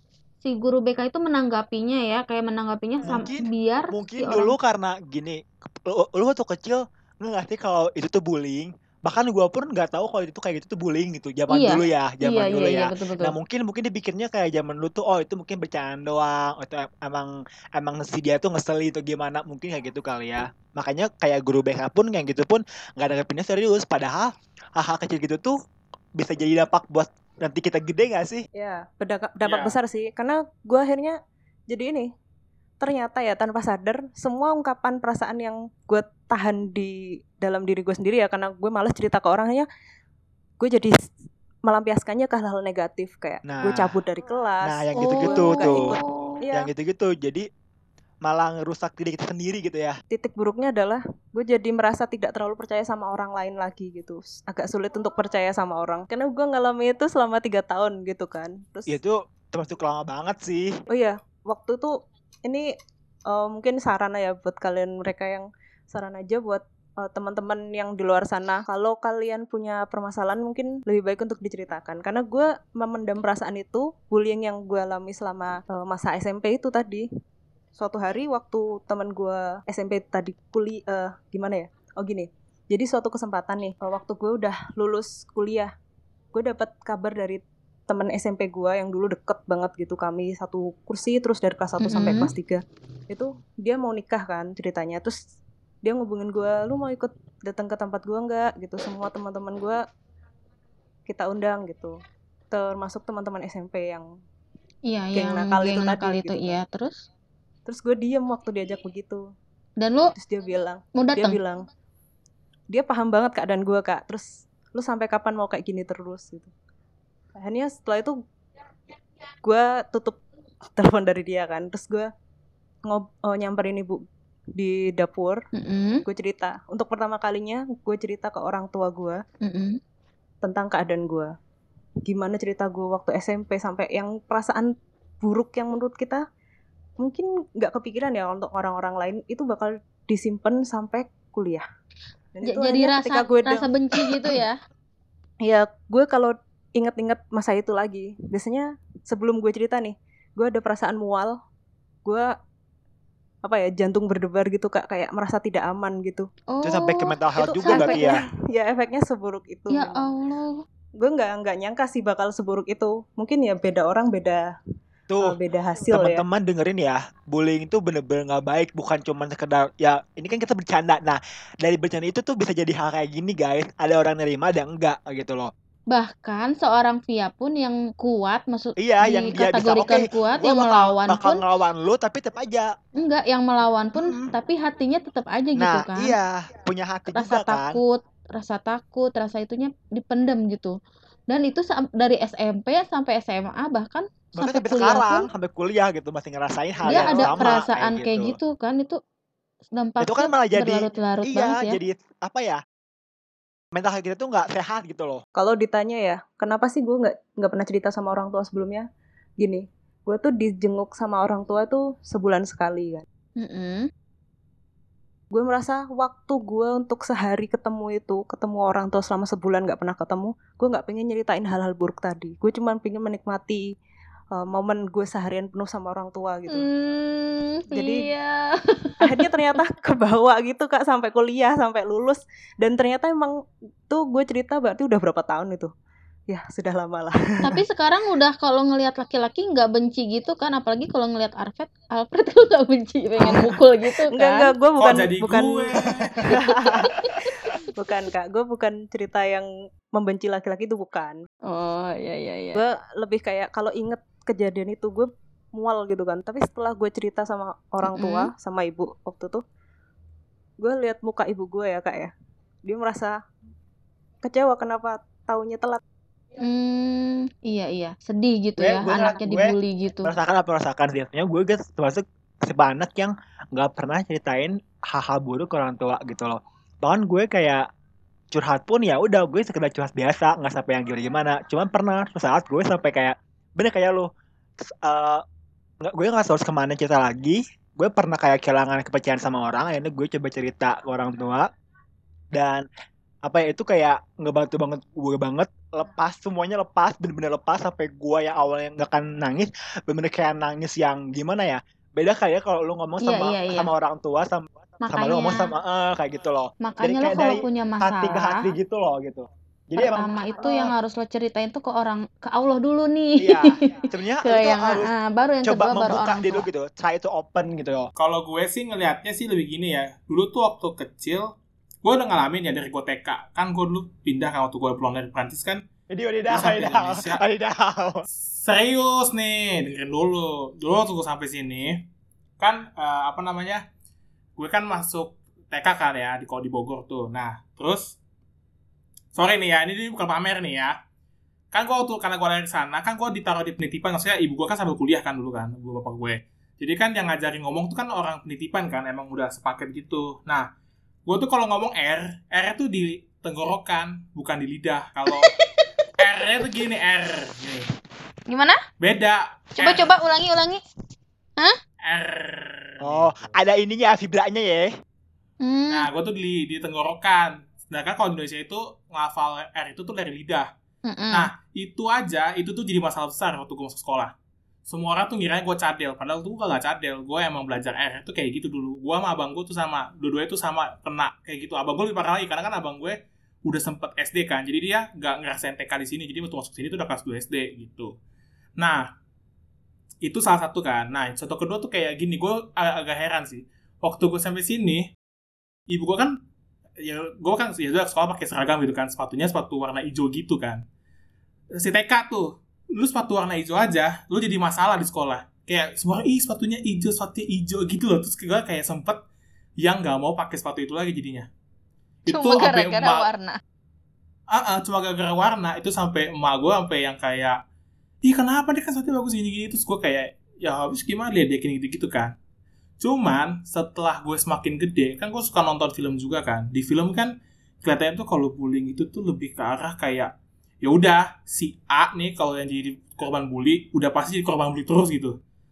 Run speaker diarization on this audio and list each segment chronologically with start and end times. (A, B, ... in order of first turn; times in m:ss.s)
0:00.4-0:04.6 A
0:03.0-0:25.6 B
0:11.5-0:13.4 A
0:26.2-0:28.5 B
0:28.6-0:31.2 C
0:29.4-0:29.8 D
0:31.7-0:32.1 C
0:32.8-0:39.7 C
0:40.6-0:41.0 C
0:41.7-0:46.7 C
0:43.4-0:43.9 B
0:44.6-0:46.0 B
0:45.0-0:46.4 A
0:46.5-0:47.5 B
0:48.2-0:50.0 B
0:50.1-0:59.0 C
0:58.9-1:00.7 B
1:00.9-1:02.7 C
1:03.3-1:17.1 C
1:17.8-1:25.7 C
1:26.3-1:35.2 C
1:31.8-1:32.3 A
1:35.8-1:39.8 C
1:41.1-1:42.0 C
1:42.5-1:44.0 C
1:44.9-1:47.1 A
1:45.2-1:46.6 C
1:47.7-1:49.2 C
1:49.8-1:50.1 A
1:50.2-1:51.7 C
1:51.0-1:51.4 A
1:52.7-1:56.5 C
1:57.4-1:58.2 C
1:59.4-2:00.2 C
2:00.8-2:02.1 C
2:02.9-2:04.0 C
2:04.6-2:05.4 C
2:05.5-2:06.0 A
2:06.0-2:09.2 C
2:09.4-2:09.8 A
2:10.4-2:11.3 C
2:12.0-2:16.2 C
2:17.0-2:21.6 C
2:22.4-2:24.4 C
2:22.4-2:24.6 A
2:25.4-2:31.3 C
2:32.0-2:32.3 C
2:33.4-2:36.3 C
2:36.5-2:38.1 A
2:36.6-2:38.2 B
2:37.4-2:40.1 C
2:39.7-2:40.6 A
2:41.0-2:44.5 C
2:45.1-2:45.4 B
2:45.2-2:46.2 C
2:45.9-2:55.5 B
2:55.9-3:01.4 A
2:58.8-3:02.7 B
3:03.0-3:06.2 A
3:04.0-3:04.4 B
3:05.6-3:07.8 B
3:07.1-3:10.8 A
3:11.3-3:15.3 A
3:14.4-3:18.4 B
3:16.8-3:19.0 A
3:19.8-3:21.8 A
3:20.0-3:22.6 B
3:23.7-3:25.2 B
3:25.4-3:28.9 C
3:29.4-3:33.0 C
3:33.4-3:33.9 A
3:35.3-3:43.6 C
3:44.3-3:46.7 C
3:46.5-3:49.2 A
3:47.7-3:48.1 C
3:49.0-3:53.4 C
3:53.9-3:55.7 C
3:56.3-3:57.6 C
3:57.4-4:04.5 A
4:03.2-4:11.2 C
4:04.8-4:06.4 D
4:06.3-4:07.3 A
4:11.5-4:12.6 A
4:12.6-4:19.4 C
4:17.8-4:18.3 A
4:20.6-4:22.1 C
4:22.6-4:23.2 C
4:24.2-4:25.8 C
4:26.4-4:30.1 A
4:28.6-4:29.5 B
4:30.0-4:37.6 B
4:38.3-4:44.1 B
4:44.7-4:45.2 B
4:45.8-4:51.5 B
4:52.3-4:52.6 B
4:53.2-5:10.7 B
5:03.0-5:03.7 A
5:04.8-5:05.5 A
5:06.6-5:08.5 A
5:09.8-5:16.4 A
5:13.2-5:14.9 B
5:15.4-5:17.9 B
5:18.0-5:21.3 D
5:21.8-5:25.6 D
5:25.9-5:28.0 B
5:26.3-5:27.2 D
5:28.2-5:31.8 D
5:32.4-5:33.6 D
5:34.4-5:38.0 D
5:39.1-5:40.8 D
5:41.5-5:50.4 D
5:51.0-5:55.3 D
5:56.0-5:57.7 D
5:58.3-5:58.6 A
5:58.8-5:59.9 D
5:59.6-6:00.6 A
6:01.8-6:03.4 D
6:02.8-6:04.7 B
6:05.4-6:05.9 A
6:05.7-6:10.5 D
6:10.9-6:11.3 A
6:11.1-6:14.1 D
6:14.7-6:27.9 D
6:28.6-6:28.8 D
6:30.0-6:34.9 D
6:35.7-6:36.2 D
6:36.8-6:40.6 D
6:41.5-6:49.0 D
6:49.6-6:51.3 D
6:52.0-6:53.0 D
6:52.1-6:53.4 A
6:54.3-6:57.4 D
6:58.0-7:02.1 D
7:02.8-7:07.1 D
7:07.6-7:10.1 D
7:10.6-7:15.2 D